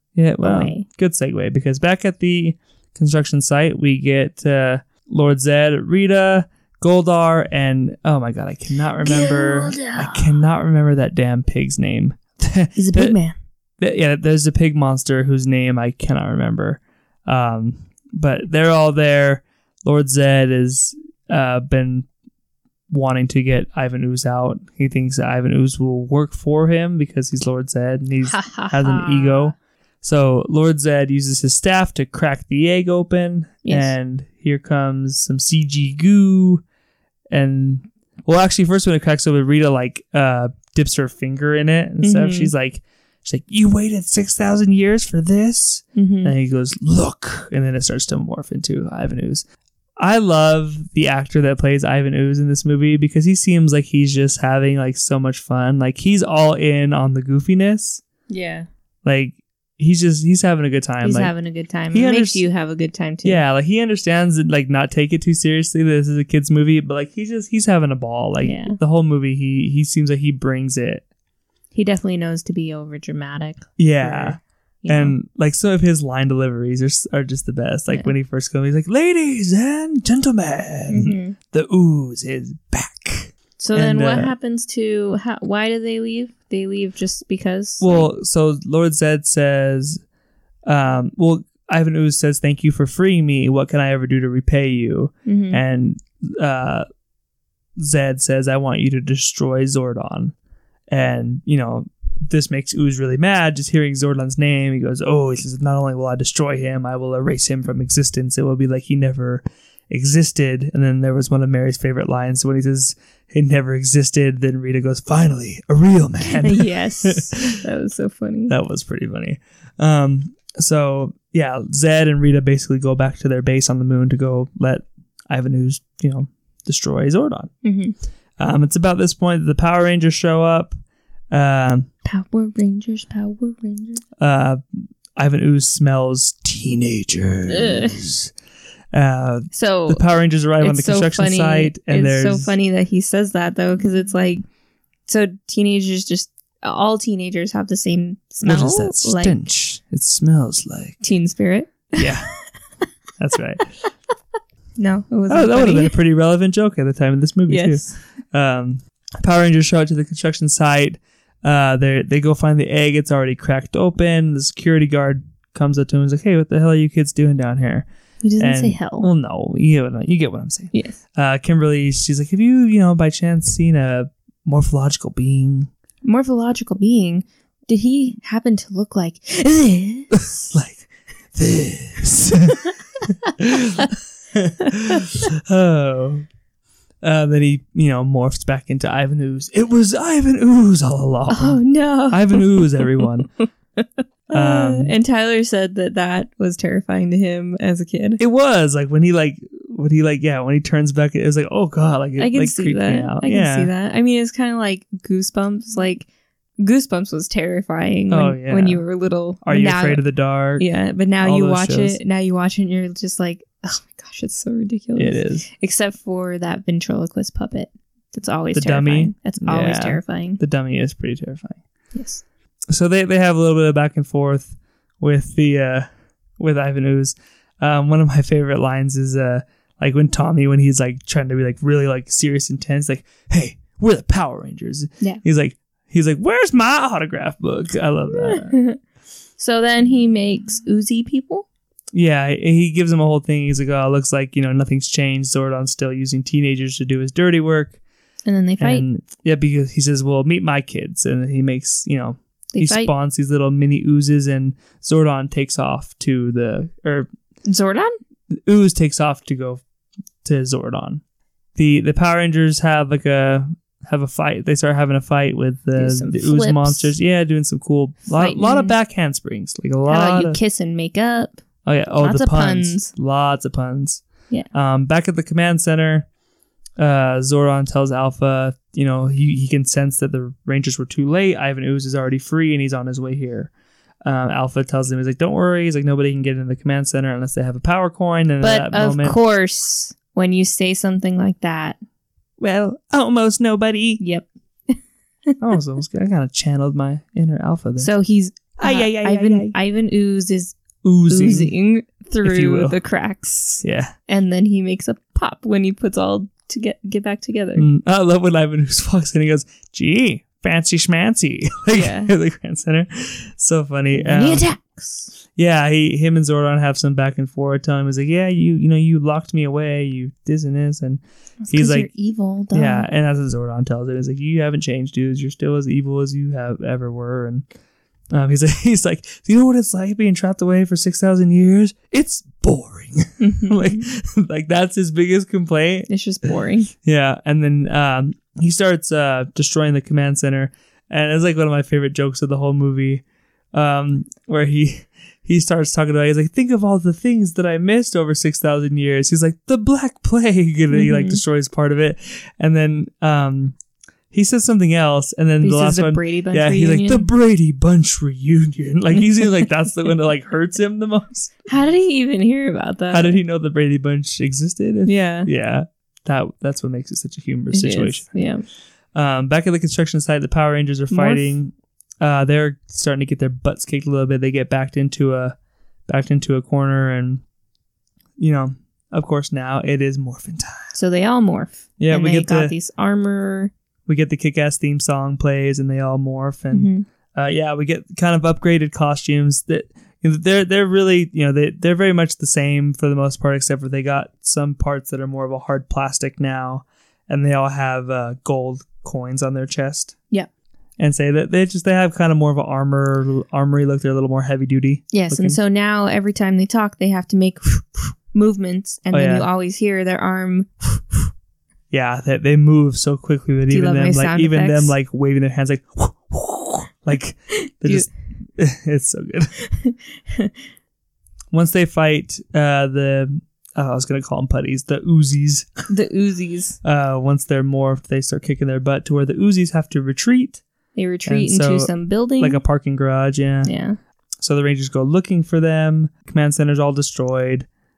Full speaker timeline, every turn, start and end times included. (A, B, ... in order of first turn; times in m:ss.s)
0:00.1-0:13.2 A
0:00.4-0:00.8 B
0:09.0-0:10.4 B
0:12.8-0:13.3 B
0:13.8-0:22.1 A
0:22.9-0:36.6 A
0:28.2-0:29.5 B
0:33.6-0:33.9 B
0:37.3-0:49.4 A
0:42.0-0:42.5 B
0:46.0-0:46.3 B
0:50.0-0:58.0 A
0:58.3-0:58.7 B
0:59.0-1:01.3 A
1:01.0-1:03.4 B
1:01.9-1:02.4 A
1:03.2-1:11.0 A
1:08.4-1:08.8 B
1:11.7-1:15.1 B
1:13.8-1:24.3 A
1:20.9-1:21.4 B
1:23.6-1:28.1 B
1:27.8-1:30.0 A
1:30.6-1:36.8 A
1:35.2-1:35.6 B
1:37.8-1:40.3 A
1:40.9-1:57.6 A
1:56.3-1:58.5 B
1:58.5-2:07.5 A
2:07.6-2:07.9 B
2:08.4-2:10.7 A
2:11.3-2:11.9 A
2:12.0-2:14.0 B
2:14.2-2:18.3 A
2:17.5-2:18.0 B
2:18.9-2:22.5 A
2:19.5-2:20.0 B
2:20.6-2:24.4 B
2:25.1-2:29.3 B
2:28.4-2:31.0 A
2:31.0-2:32.6 B
2:32.0-2:32.3 A
2:33.2-2:33.7 A
2:34.8-2:35.9 B
2:35.3-2:47.8 A
2:37.5-2:38.0 B
2:48.2-2:49.0 B
2:48.4-2:55.7 A
2:50.7-2:51.0 B
2:56.0-3:00.5 B
3:00.2-3:02.6 A
3:02.5-3:03.3 B
3:03.4-3:06.2 A
3:04.7-3:05.1 B
3:07.0-3:13.3 A
3:11.3-3:18.2 B
3:14.3-3:14.9 A
3:18.2-3:23.7 A
3:22.2-3:26.1 B
3:26.6-3:30.0 B
3:28.1-3:28.8 A
3:29.4-3:30.6 A
3:30.6-3:40.4 B
3:31.2-3:32.0 A
3:35.0-3:35.4 A
3:38.5-3:41.6 A
3:41.9-3:42.2 B
3:42.7-3:58.5 A
3:58.1-3:58.8 B
3:59.4-4:01.4 B
4:01.9-4:07.8 A
4:08.2-4:08.8 B
4:08.6-4:17.1 A
4:12.5-4:12.9 B
4:17.4-4:18.0 B
4:18.3-4:19.6 A
4:20.2-4:21.0 A
4:21.6-4:30.4 A
4:25.8-4:26.9 B
4:28.1-4:28.7 B
4:29.8-4:31.4 B
4:31.6-4:36.1 A
4:32.0-4:32.9 B
4:36.8-4:43.5 A
4:44.0-4:49.2 A
4:48.4-4:51.8 B
4:52.4-4:54.0 A
4:54.0-4:55.4 B
4:55.4-4:57.9 A
4:57.8-5:07.7 B
4:58.6-4:59.6 A
5:00.8-5:01.5 A
5:02.2-5:02.8 A
5:03.6-5:03.9 A
5:07.6-5:14.4 A
5:11.7-5:12.1 B
5:13.9-5:15.1 B
5:15.3-5:21.9 A
5:21.4-5:22.9 B
5:22.5-5:27.4 A
5:28.1-5:53.6 A
5:33.2-5:33.8 B
5:35.9-5:36.7 B
5:50.7-5:51.2 B
5:54.1-6:01.3 A
5:55.4-5:57.1 B
6:01.5-6:03.2 B
6:02.9-6:08.1 A
6:04.8-6:05.3 B
6:07.5-6:08.4 B
6:08.9-6:15.3 A
6:10.9-6:11.4 B
6:15.9-6:17.2 A
6:18.2-6:20.7 A
6:20.7-6:23.5 B
6:21.8-6:22.5 A
6:23.9-6:40.0 A
6:26.5-6:26.8 B
6:40.8-6:45.4 A
6:44.9-6:51.1 B
6:48.9-6:49.3 A
6:51.7-6:59.3 A
6:53.5-6:54.7 B
6:57.3-6:57.9 B
6:59.4-7:00.4 B
7:01.3-7:05.7 A
7:05.7-7:06.6 B
7:06.6-7:10.4 A
7:10.7-7:12.4 B
7:11.0-7:13.5 A
7:13.4-7:13.8 B
7:14.2-7:17.5 A